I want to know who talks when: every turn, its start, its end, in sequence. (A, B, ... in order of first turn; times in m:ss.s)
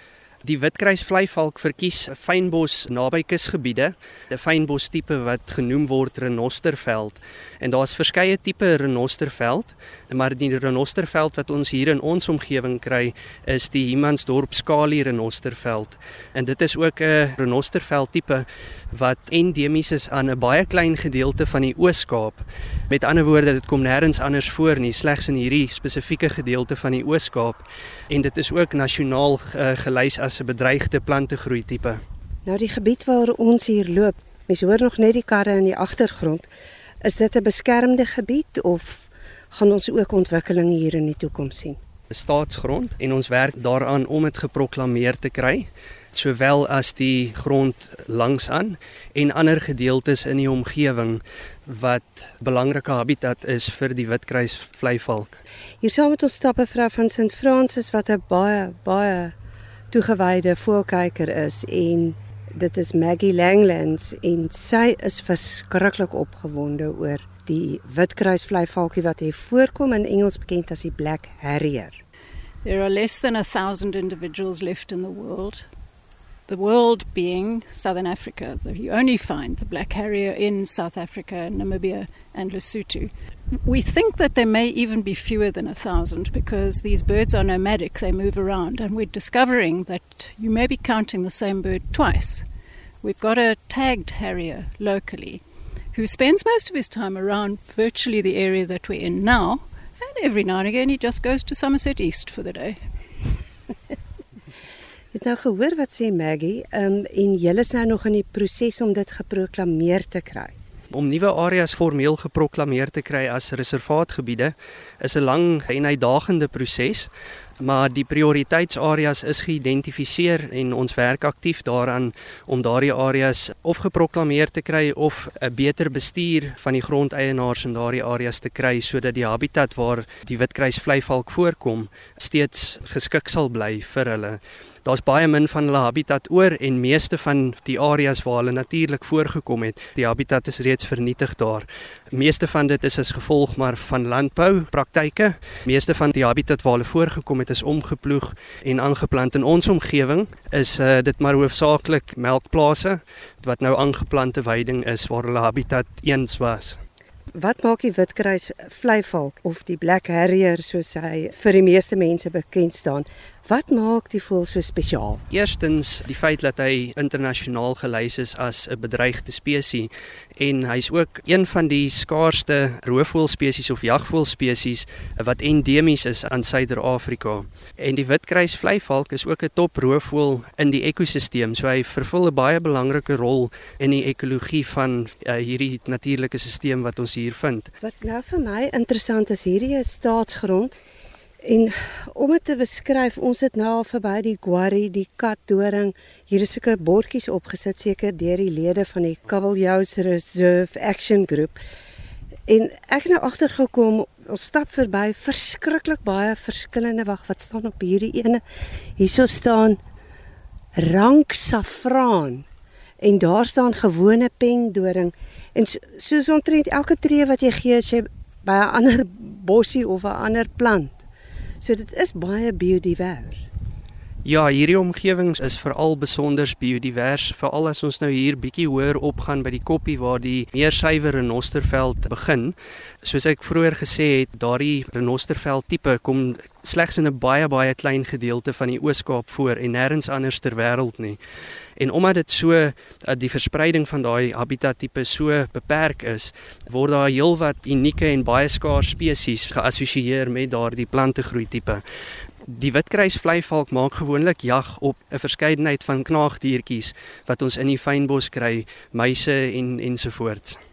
0:00.4-0:32.0 A
0:32.5-0:36.5 B
0:37.0-0:41.8 B
0:42.1-0:55.4 A
0:55.8-0:59.3 B
0:59.9-1:12.0 B
1:12.6-1:15.7 C
1:16.5-1:23.1 C
1:23.6-1:32.5 C
1:33.0-1:35.4 C
1:35.9-1:42.8 C
1:45.1-1:50.5 B
1:50.9-2:36.8 A
2:37.4-2:45.2 B
2:45.3-3:07.7 A
3:07.8-3:10.8 B
3:11.4-3:21.6 B
3:22.5-3:28.4 B
3:29.0-3:29.8 B
3:30.8-3:32.4 B
3:33.0-3:41.0 B
3:41.6-3:43.4 B
3:44.2-4:01.2 A
4:01.8-4:11.8 A
4:12.4-4:20.6 A